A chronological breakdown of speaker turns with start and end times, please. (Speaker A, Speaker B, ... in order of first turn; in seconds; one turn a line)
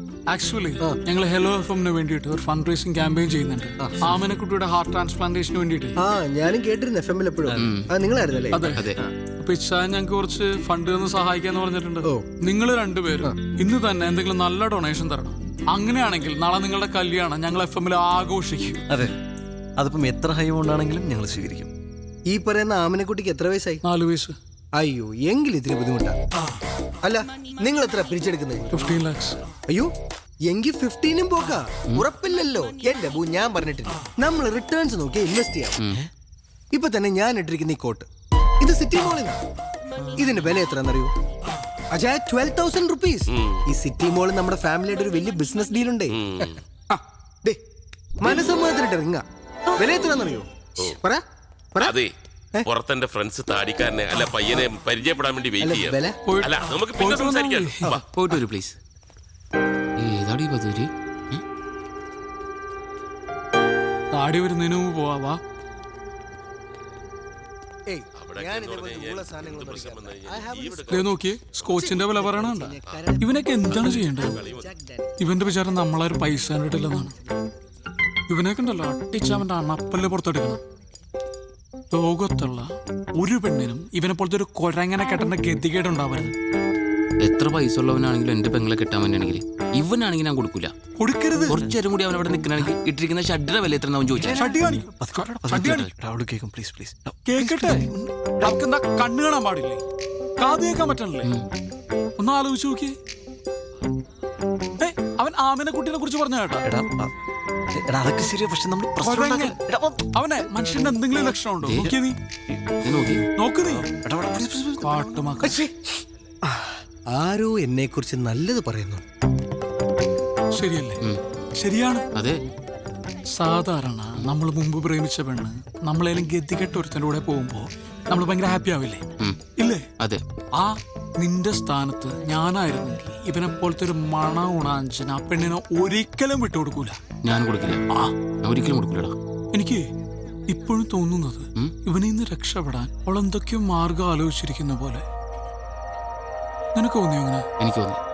Speaker A: 0.3-6.0
Speaker B: 3.8-4.1
Speaker B: 6.0-9.1
Speaker C: 7.6-7.9
Speaker A: 8.5-8.8
Speaker A: 9.4-18.8
Speaker D: 19.8-21.7
Speaker B: 22.3-23.8
Speaker A: 23.8-24.3
Speaker B: 24.8-26.2
Speaker B: 27.0-28.9
Speaker A: 28.7-29.4
Speaker B: 30.4-35.8
Speaker B: 36.7-38.0
Speaker B: 38.6-39.4
Speaker B: 40.2-41.1
Speaker B: 41.9-47.6
Speaker E: 43.3-43.6
Speaker E: 46.1-46.6
Speaker B: 48.2-49.2
Speaker B: 49.8-51.2
Speaker E: 51.8-52.1
Speaker E: 52.6-58.0
Speaker B: 55.6-56.2
Speaker A: 56.2-57.9
Speaker C: 58.1-58.8
Speaker C: 60.0-61.4
Speaker A: 64.1-65.4
Speaker B: 67.9-71.1
Speaker E: 68.2-71.2
Speaker A: 70.9-74.4
Speaker B: 71.7-75.1
Speaker E: 73.8-74.7
Speaker A: 75.2-77.1
Speaker A: 78.3-80.6
Speaker A: 81.9-86.3
Speaker C: 87.2-90.7
Speaker A: 91.0-91.6
Speaker C: 91.5-94.4
Speaker D: 94.1-97.9
Speaker A: 94.3-95.9
Speaker C: 95.6-95.9
Speaker A: 97.2-99.8
Speaker A: 100.4-101.3
Speaker A: 102.2-103.0
Speaker A: 104.8-106.7
Speaker D: 106.6-107.1
Speaker D: 107.7-110.0
Speaker A: 109.0-109.6
Speaker A: 110.1-112.2
Speaker C: 111.6-111.9
Speaker D: 111.7-111.9
Speaker C: 112.8-113.2
Speaker A: 113.3-113.9
Speaker D: 114.0-115.3
Speaker A: 114.8-115.6
Speaker B: 115.4-119.0
Speaker A: 120.5-121.0
Speaker A: 121.6-122.1
Speaker A: 123.3-129.0
Speaker A: 129.6-129.9
Speaker A: 130.6-137.0
Speaker C: 137.2-137.8
Speaker C: 138.4-139.1
Speaker A: 139.5-139.8
Speaker A: 140.5-145.0
Speaker A: 146.7-147.5
Speaker C: 147.6-148.0